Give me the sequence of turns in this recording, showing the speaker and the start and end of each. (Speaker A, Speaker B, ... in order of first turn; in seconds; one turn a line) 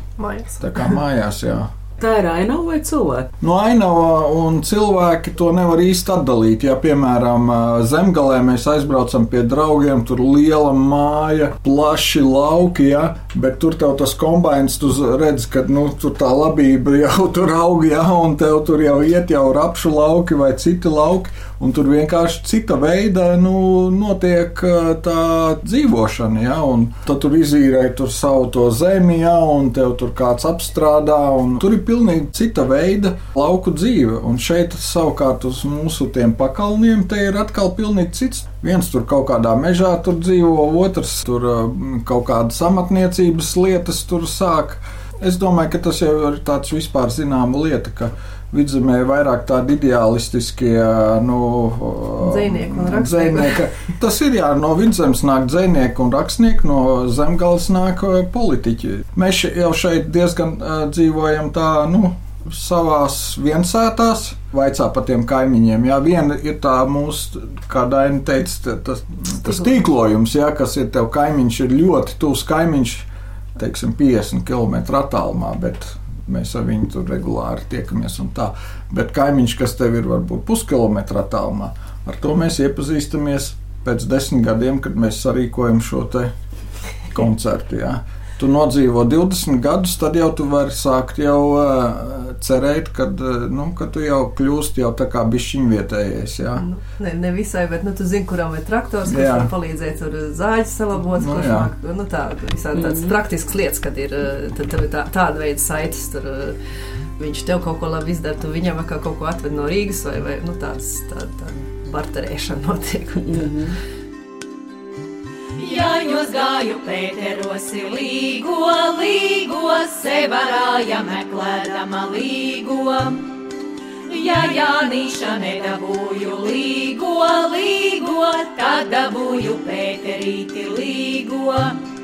Speaker A: 0.2-0.6
Speaker B: 0.6-1.7
Speaker C: 2.0-3.3
Speaker B: 3.4-86.3
Speaker A: 52.2-53.6
Speaker B: 87.1-96.6
Speaker A: 96.6-106.6
Speaker B: 99.1-99.5
Speaker B: 101.2-101.7
Speaker C: 102.8-103.1
Speaker A: 107.2-113.5
Speaker C: 113.2-113.8
Speaker D: 115.6-123.2
Speaker D: 124.1-131.8